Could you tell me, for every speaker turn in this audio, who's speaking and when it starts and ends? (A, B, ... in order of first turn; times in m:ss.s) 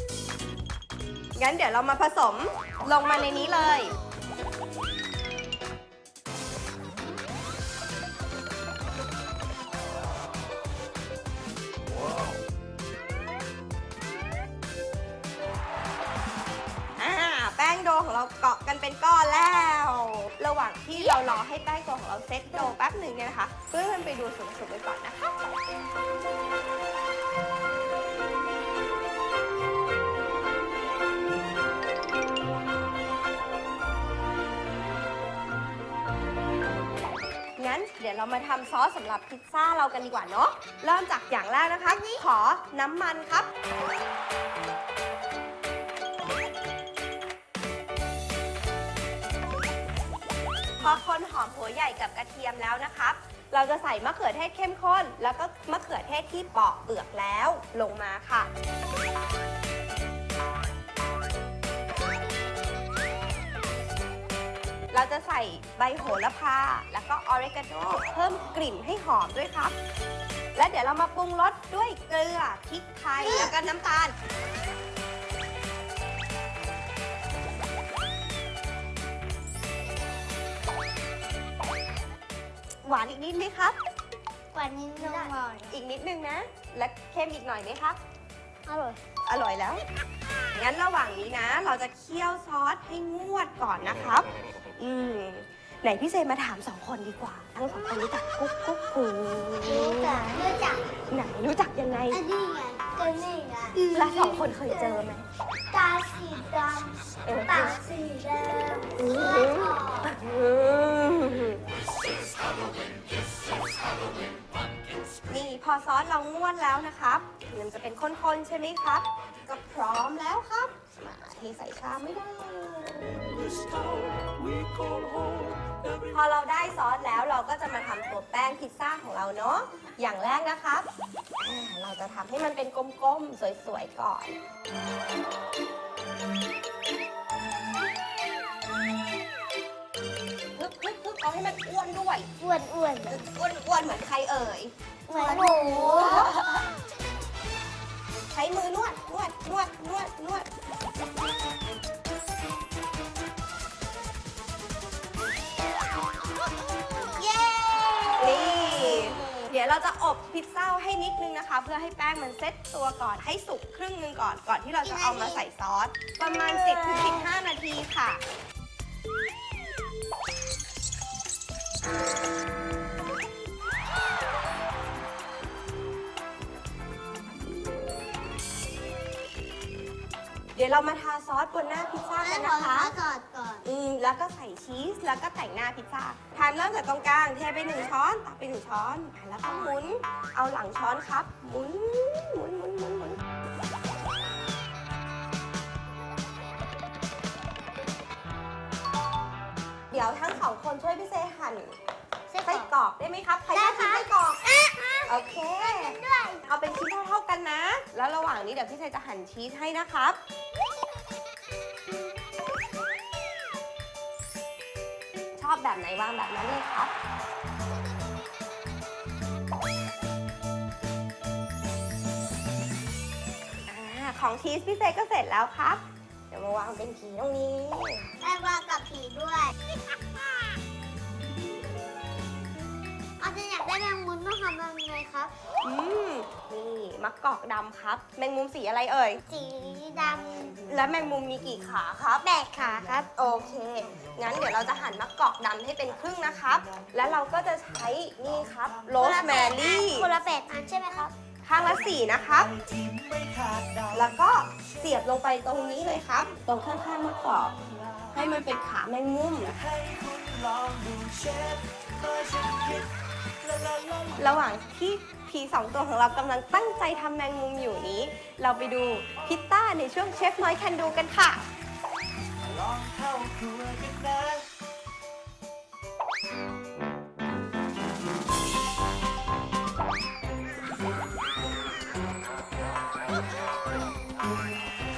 0:01.4-0:03.9 A
0:17.0-0:25.4 A
0:21.0-0:21.3 B
0:37.6-0:43.5 A
0:41.8-0:42.3 B
0:50.8-0:58.5 A
1:04.9-1:09.8 A
1:10.6-1:14.1 A
1:13.2-1:13.5 B
1:22.8-1:23.8 A
1:24.5-1:25.8 B
1:25.1-1:28.0 A
1:28.7-1:29.0 B
1:29.3-1:29.8 A
1:30.5-1:40.3 A
1:39.6-1:40.9 B
1:41.0-1:42.2 A
1:42.1-1:45.0 B
1:43.7-1:45.2 A
1:45.7-1:50.1 B
1:47.2-1:47.8 A
1:49.0-1:51.6 A
1:55.3-2:03.7 A
2:03.8-2:05.9 C
2:06.1-2:10.9 A
2:11.4-2:14.4 A
2:20.6-2:22.3 A
2:22.4-2:23.2 B
2:23.1-2:26.7 A
2:25.1-2:26.3 B
2:28.3-2:30.5 A
2:37.0-2:39.4 B
2:38.2-2:48.2 A
2:44.8-2:45.5 B
2:46.5-2:47.3 B
3:00.6-3:02.9 A
3:02.2-3:03.6 B
3:03.6-3:13.2 A
3:19.9-3:21.7 A
3:22.3-3:22.7 B
3:22.4-3:24.4 A
3:23.5-3:26.4 B
3:25.1-3:30.2 A
3:35.4-3:36.9 A
3:43.7-3:48.1 A
3:48.2-3:49.5 B
3:53.2-3:55.3 B
3:55.6-3:59.2 A
3:59.2-4:00.7 B
4:00.7-4:02.3 A
4:00.8-4:01.2 C
4:02.2-4:03.1 B
4:02.6-4:05.1 C
4:03.1-4:10.1 A
4:05.8-4:09.5 C
4:09.0-4:11.1 B
4:11.4-4:12.5 A
4:11.6-4:14.8 C
4:13.9-4:17.6 A
4:17.3-4:18.4 C
4:18.1-4:19.6 A
4:19.5-4:24.5 C
4:24.2-4:31.4 A
4:32.4-4:34.5 C
4:44.2-4:44.6 C